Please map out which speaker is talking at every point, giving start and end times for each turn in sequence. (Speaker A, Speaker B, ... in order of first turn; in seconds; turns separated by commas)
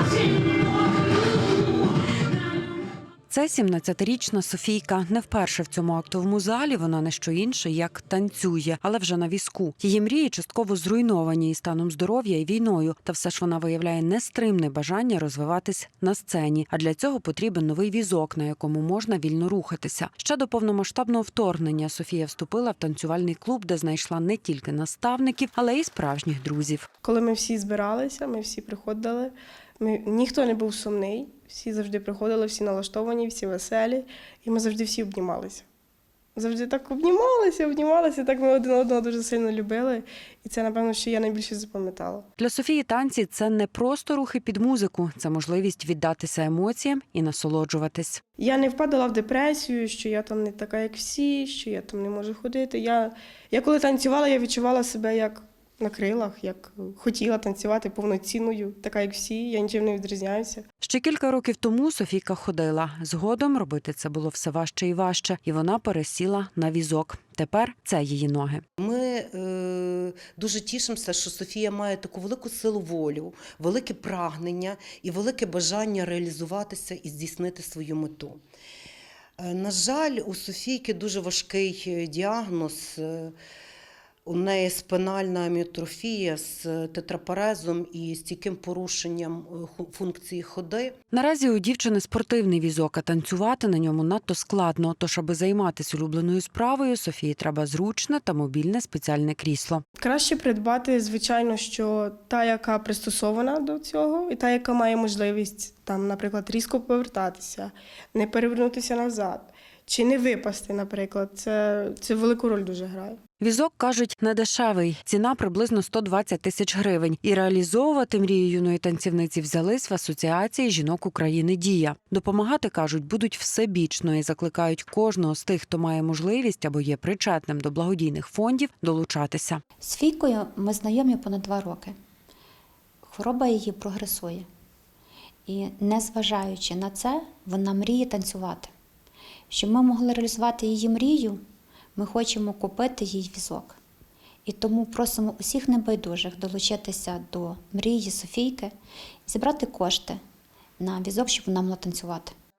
Speaker A: 3.3-26.9, Speaker B: 27.0-35.7, Speaker B: 36.4-42.2, Speaker A: 42.4-48.2, Speaker B: 48.4-60.6, Speaker A: 60.8-68.6, Speaker C: 68.8-78.4, Speaker C: 79.4-83.3, Speaker C: 84.3-90.9, Speaker A: 91.1-99.8, Speaker B: 100.0-113.2, Speaker A: 113.4-129.6, Speaker D: 129.8-131.9, Speaker D: 133.0-134.5, Speaker D: 135.5-138.7, Speaker D: 139.5-141.4, Speaker D: 142.0-143.8, Speaker D: 144.5-148.7, Speaker D: 149.3-150.2, Speaker D: 150.8-152.3